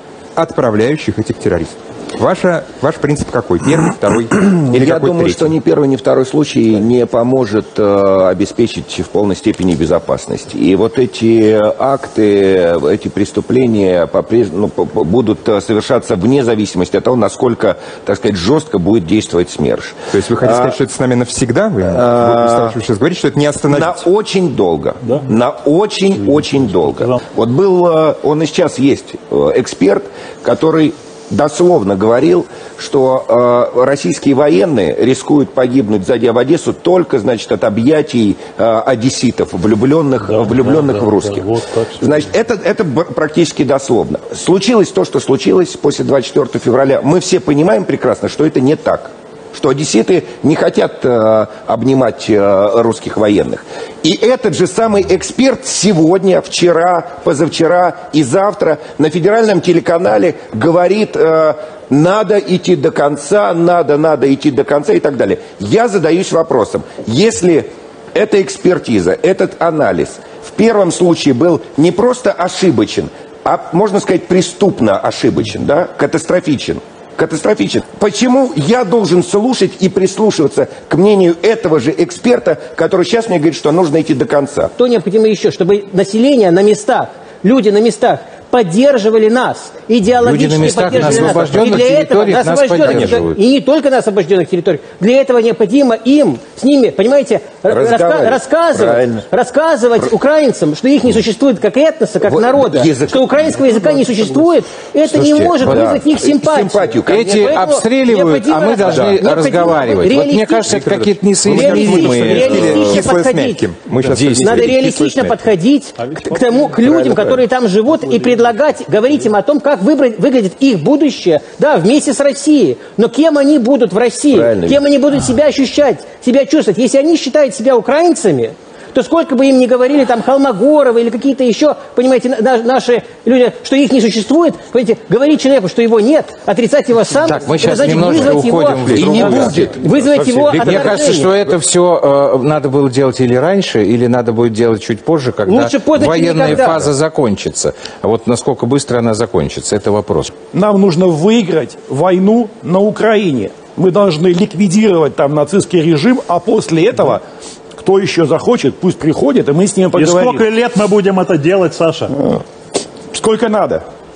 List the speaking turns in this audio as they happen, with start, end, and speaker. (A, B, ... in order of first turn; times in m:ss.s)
0:00.4-0:05.5 A
0:04.4-0:20.7 B
0:20.1-0:24.0 A
0:21.8-0:22.8 B
0:23.7-1:24.7 B
0:26.2-0:27.2 C
0:40.2-0:42.2 C
1:24.8-1:50.8 D
1:30.2-1:33.3 E
1:37.7-1:39.2 B
1:42.2-1:43.6 B
1:45.0-1:45.8 E
1:45.6-1:47.4 B
1:47.0-1:53.0 E
1:50.7-1:55.3 A
1:51.4-1:53.7 D
1:54.0-1:54.9 E
1:54.3-2:21.3 D
1:56.0-1:56.8 C
1:56.8-1:57.4 B
1:58.0-1:58.4 C
2:04.3-2:04.8 B
2:17.2-2:19.8 E
2:18.9-2:20.9 B
2:20.4-2:30.3 E
2:25.4-2:26.9 D
2:30.5-2:37.2 F
2:37.8-2:40.4 F
2:39.9-2:42.2 C
2:43.1-2:43.8 F